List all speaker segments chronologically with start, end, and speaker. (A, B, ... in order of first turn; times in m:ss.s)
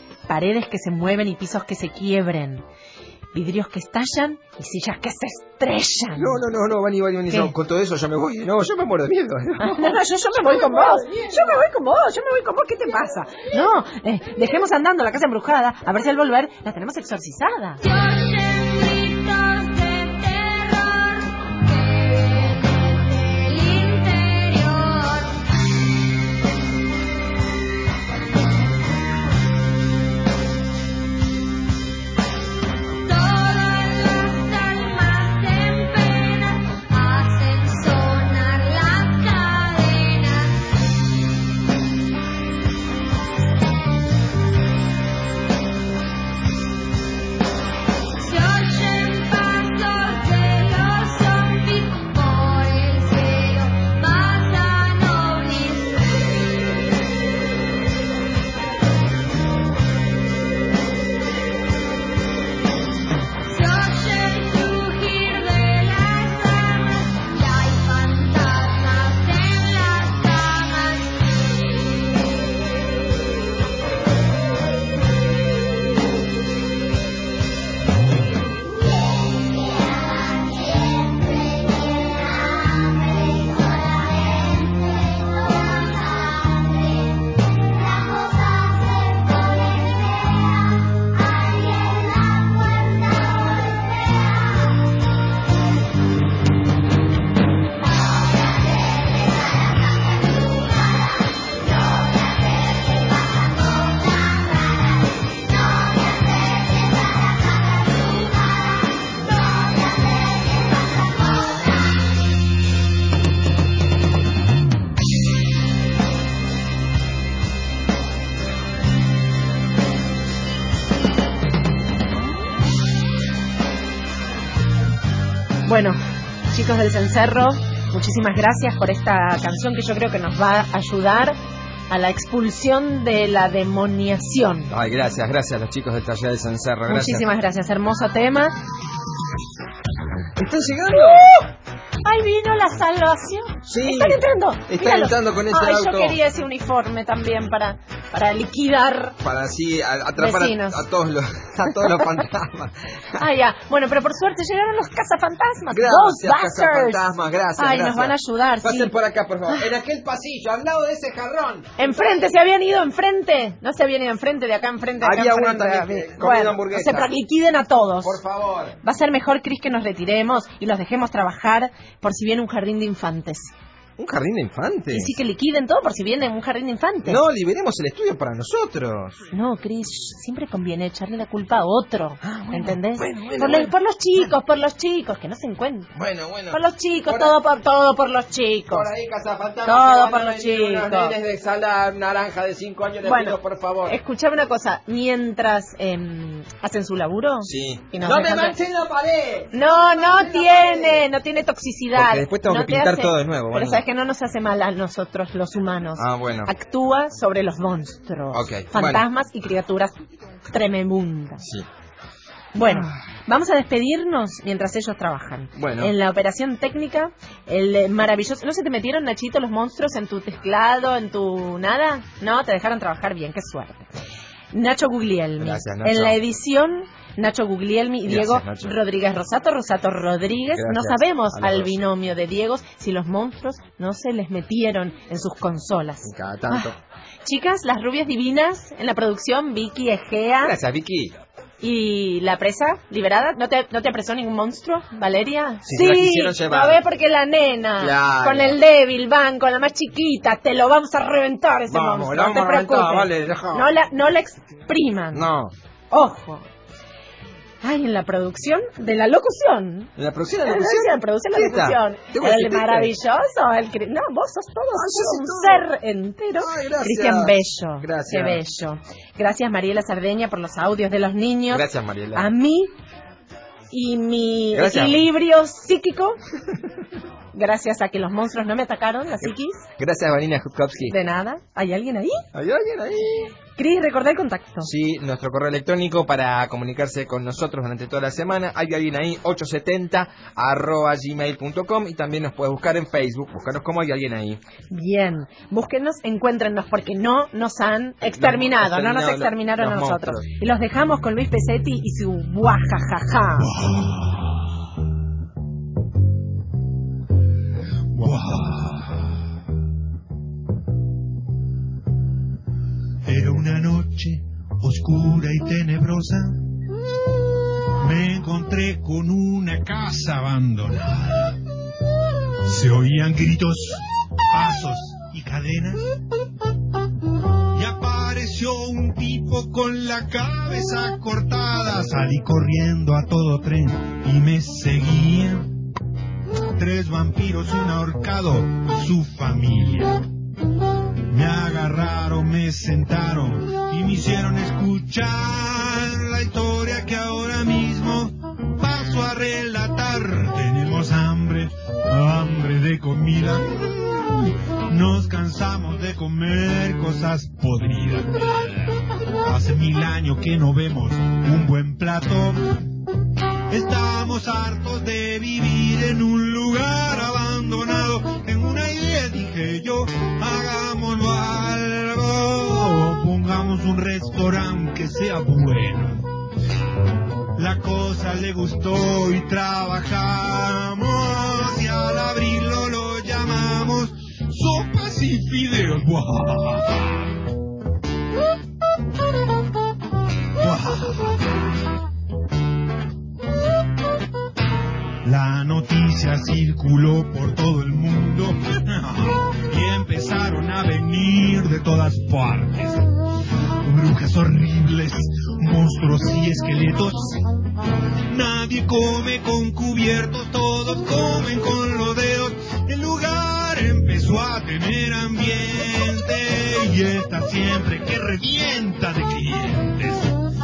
0:00.3-0:02.6 A
0:03.3-0:06.4 A
0:06.1-0:10.6 B
0:09.6-0:17.8 A
0:17.8-0:25.4 C
0:33.0-0:40.6 C
0:48.2-0:56.8 C
1:03.5-1:12.2 C
1:20.6-1:21.6 C
1:23.4-1:23.8 C
1:25.7-1:26.6 C
2:05.6-2:11.4 A
2:11.9-2:14.7 A
2:14.7-2:17.2 B
2:16.9-2:18.6 A
2:20.3-2:21.3 B
2:20.9-2:21.5 A
2:22.0-2:29.2 A
2:23.6-2:26.2 B
2:29.2-2:32.7 B
2:30.2-2:30.8 A
2:33.1-2:37.0 A
2:35.7-2:42.3 B
2:37.6-2:39.0 A
2:41.8-2:48.2 A
2:45.0-2:47.1 B
2:48.0-2:48.8 B
2:48.8-2:53.5 A
2:54.0-2:55.2 B
2:54.9-2:57.2 A
2:57.0-2:59.2 B
2:59.3-3:05.9 A
3:02.2-3:04.3 B
3:05.9-3:07.4 B
3:06.5-3:08.9 A
3:08.7-3:14.0 B
3:09.6-3:11.2 A
3:13.0-3:18.6 A
3:17.4-3:21.0 B
3:19.5-3:30.0 A
3:21.9-3:23.8 B
3:26.0-3:26.5 B
3:28.3-3:29.0 B
3:30.5-3:31.4 A
3:31.4-3:31.7 B
3:32.5-3:43.9 A
3:32.6-3:33.0 B
3:35.6-3:35.9 B
3:44.5-3:56.7 A
3:45.4-3:46.2 B
3:48.0-3:48.8 B
3:50.5-3:51.8 B
3:56.0-3:56.8 B
3:57.2-4:00.6 A
4:00.4-4:01.2 B
4:01.6-4:15.2 A
4:05.6-4:06.8 B
4:07.8-4:08.6 B
4:11.7-4:13.7 B
4:15.1-4:15.5 B
4:15.9-4:16.4 A
4:17.6-4:32.7 A
4:20.0-4:22.9 B
4:24.7-4:25.7 B
4:26.4-4:28.4 B
4:31.5-4:32.3 B
4:33.7-4:36.2 A
4:34.5-4:35.0 B
4:37.3-4:39.6 A
4:39.2-4:41.0 B
4:40.9-4:42.2 A
4:42.3-4:43.3 B
4:43.6-4:44.7 A
4:44.6-4:54.4 B
4:54.7-5:03.5 A
4:58.0-5:00.3 B
5:03.4-5:04.3 D
5:07.9-5:09.1 D
5:13.0-5:16.4 D
5:17.8-5:21.4 D
5:22.4-5:25.8 D
5:27.5-5:35.5 D
5:36.6-5:40.0 D
5:41.1-5:58.6 D
5:59.2-6:02.6 D
6:03.5-6:16.0 D
6:17.4-6:27.0 D
6:30.4-6:31.2 D
6:35.0-6:42.8 D
6:43.6-6:47.2 D
6:48.1-7:00.1 D